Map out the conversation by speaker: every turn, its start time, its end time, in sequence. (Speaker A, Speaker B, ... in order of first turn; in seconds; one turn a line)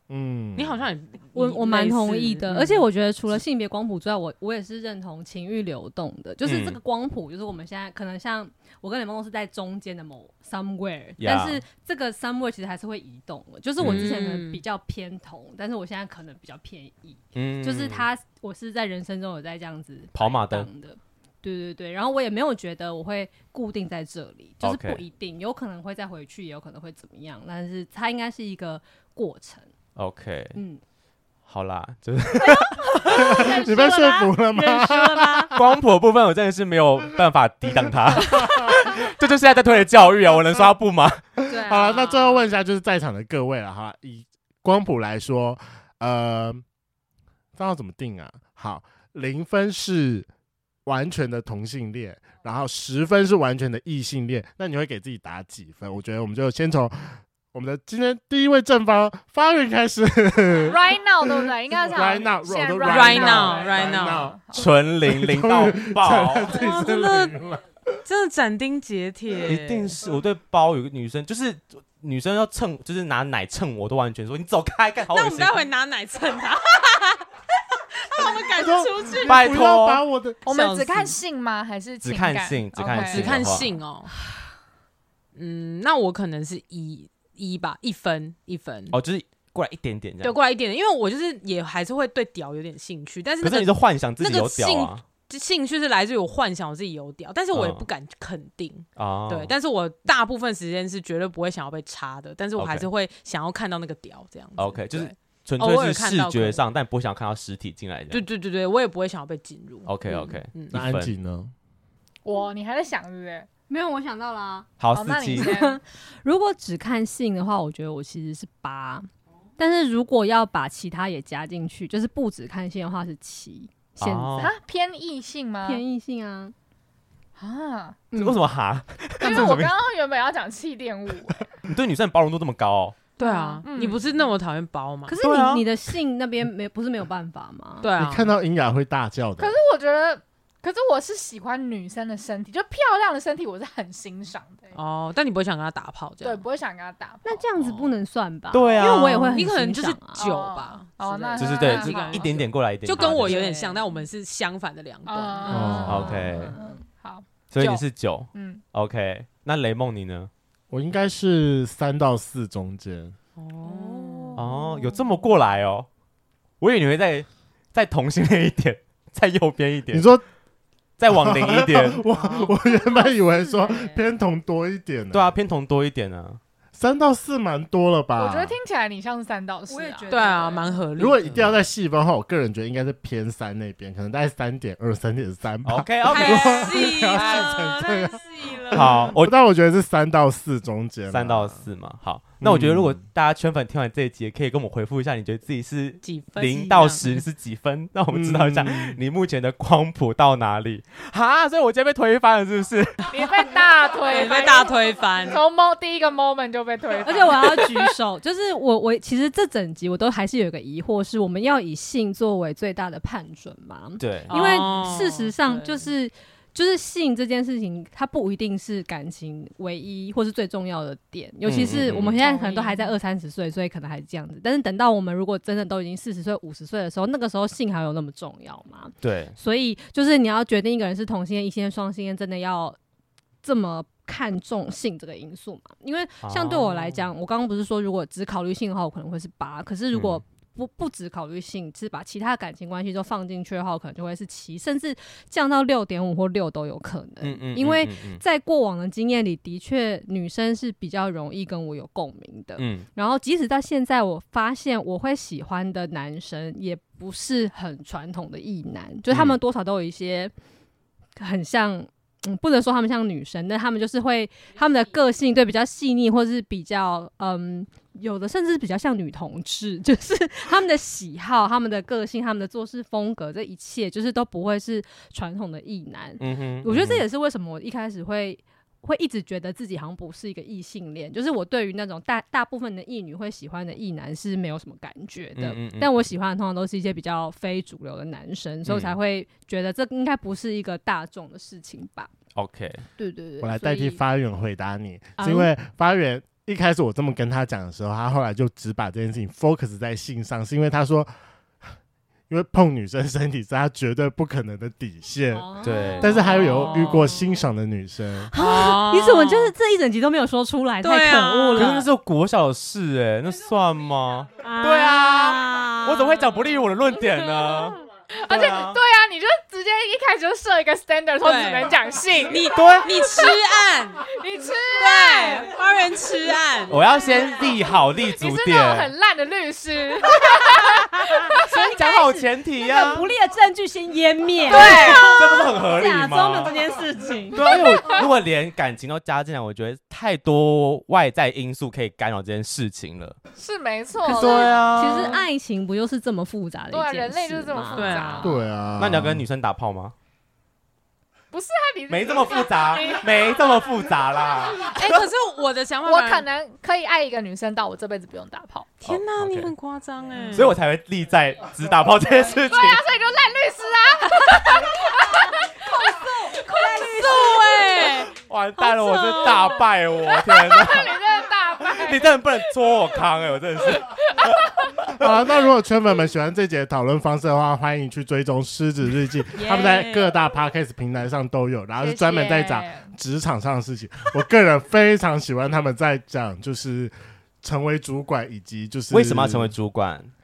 Speaker A: 0.1-0.9
Speaker B: 0.6-2.9
Speaker C: 1.4-29.7
Speaker D: 6.4-6.8
Speaker D: 11.2-11.6
Speaker D: 13.8-14.1
Speaker B: 13.9-14.6
Speaker D: 17.4-18.1
Speaker D: 20.1-20.7
Speaker D: 24.6-25.0
Speaker D: 30.0-30.6
Speaker C: 30.5-30.8
Speaker D: 31.5-33.4
Speaker C: 32.5-35.6
Speaker A: 33.1-35.6
Speaker D: 35.5-41.2
Speaker A: 38.2-38.7
Speaker A: 41.4-46.6
Speaker B: 41.5-42.5
Speaker A: 47.5-50.3
Speaker A: 50.9-67.6
Speaker E: 60.7-64.7
Speaker B: 62.9-64.3
Speaker D: 64.5-66.5
Speaker B: 66.5-67.4
Speaker B: 68.0-70.0
Speaker D: 69.4-75.6
Speaker B: 75.1-77.2
Speaker B: 78.0-79.7
Speaker A: 78.6-80.5
Speaker D: 79.2-80.0
Speaker E: 80.5-83.6
Speaker D: 82.0-83.7
Speaker B: 82.8-84.1
Speaker B: 85.3-89.0
Speaker D: 88.9-90.4
Speaker B: 90.2-106.6
Speaker D: 93.4-95.0
Speaker D: 97.5-97.9
Speaker D: 99.0-99.5
Speaker D: 102.6-102.9
Speaker D: 104.6-108.2
Speaker B: 108.1-110.7
Speaker D: 109.9-111.1
Speaker A: 110.7-111.5
Speaker E: 112.2-113.5
Speaker C: 113.7-114.7
Speaker D: 114.8-115.5
Speaker E: 114.9-115.8
Speaker C: 115.4-119.1
Speaker C: 119.6-124.5
Speaker D: 124.0-124.5
Speaker E: 124.4-125.8
Speaker C: 125.6-126.5
Speaker E: 127.4-128.1
Speaker C: 128.1-128.4
Speaker D: 128.1-129.7
Speaker E: 129.2-131.5
Speaker C: 129.3-129.6
Speaker D: 131.6-133.0
Speaker B: 133.2-135.2
Speaker E: 133.2-134.0
Speaker C: 135.1-137.9
Speaker D: 135.2-135.7
Speaker B: 137.8-138.3
Speaker A: 138.0-139.6
Speaker E: 139.4-144.7
Speaker B: 144.7-146.4
Speaker E: 146.2-147.4
Speaker C: 147.2-150.2
Speaker B: 147.6-147.9
Speaker D: 148.5-149.4
Speaker B: 148.8-156.1
Speaker E: 150.2-153.8
Speaker D: 151.4-153.4
Speaker C: 153.0-153.6
Speaker E: 155.1-158.6
Speaker C: 155.5-156.8
Speaker A: 155.5-156.2
Speaker D: 155.9-156.6
Speaker D: 157.5-160.3
Speaker A: 160.7-163.2
Speaker B: 163.4-164.4
Speaker E: 164.0-164.4
Speaker D: 164.4-165.9
Speaker D: 166.6-170.1
Speaker A: 169.9-170.2
Speaker D: 171.0-172.1
Speaker A: 171.1-175.4
Speaker B: 172.1-172.5
Speaker D: 175.1-176.4
Speaker A: 176.8-178.6
Speaker E: 178.2-180.3
Speaker C: 179.7-180.8
Speaker B: 180.1-181.2
Speaker A: 181.0-191.7
Speaker D: 181.3-181.6
Speaker D: 185.6-186.8
Speaker B: 186.1-189.1
Speaker D: 188.7-189.3
Speaker D: 191.1-203.2
Speaker A: 192.4-193.0
Speaker B: 196.0-197.2
Speaker A: 198.1-199.0
Speaker E: 203.1-207.9
Speaker B: 204.1-205.4
Speaker C: 207.0-232.8
Speaker D: 214.0-214.4
Speaker B: 214.3-215.9
Speaker D: 221.4-222.2
Speaker E: 222.2-222.9
Speaker D: 229.0-229.4
Speaker C: 233.4-260.3
Speaker D: 236.2-237.1
Speaker D: 239.9-240.2
Speaker D: 247.2-248.2
Speaker D: 252.6-252.9
Speaker D: 259.1-259.4
Speaker C: 261.2-292.1
Speaker D: 276.2-277.1
Speaker D: 285.4-285.9
Speaker D: 288.6-289.0
Speaker D: 292.4-292.8
Speaker C: 293.0-294.0
Speaker A: 293.4-301.1
Speaker C: 295.2-295.5
Speaker A: 302.3-305.5
Speaker C: 305.3-306.7
Speaker D: 305.6-306.2
Speaker A: 306.0-308.3
Speaker B: 306.1-307.3
Speaker C: 308.3-311.9
Speaker B: 308.4-309.5
Speaker B: 310.8-311.9
Speaker D: 311.6-318.8
Speaker C: 314.4-316.3
Speaker E: 317.4-323.4
Speaker B: 321.2-324.1
Speaker D: 322.5-322.9
Speaker E: 324.1-325.5
Speaker B: 324.8-326.8
Speaker D: 326.7-328.9
Speaker E: 327.0-327.5
Speaker E: 328.1-331.7
Speaker C: 330.8-338.0
Speaker D: 331.3-333.1
Speaker E: 334.5-335.2
Speaker D: 334.8-336.6
Speaker D: 337.3-343.2
Speaker E: 337.6-338.0
Speaker E: 343.4-345.2
Speaker C: 344.0-348.2
Speaker D: 344.1-345.2
Speaker E: 346.7-348.4
Speaker B: 347.7-348.4
Speaker A: 348.2-349.2
Speaker D: 348.8-349.9
Speaker E: 351.3-353.4
Speaker D: 351.9-355.0
Speaker E: 354.6-355.1
Speaker B: 354.7-356.3
Speaker E: 355.9-358.7
Speaker B: 358.8-360.6
Speaker D: 358.9-359.5
Speaker D: 360.3-362.8
Speaker E: 362.3-365.5
Speaker C: 365.7-367.3
Speaker B: 366.5-368.1
Speaker D: 368.1-371.0
Speaker C: 368.6-369.4
Speaker E: 370.1-372.7
Speaker D: 371.6-375.1
Speaker E: 373.8-374.6
Speaker A: 374.9-389.6
Speaker B: 379.4-380.1
Speaker E: 381.8-382.9
Speaker D: 388.9-390.1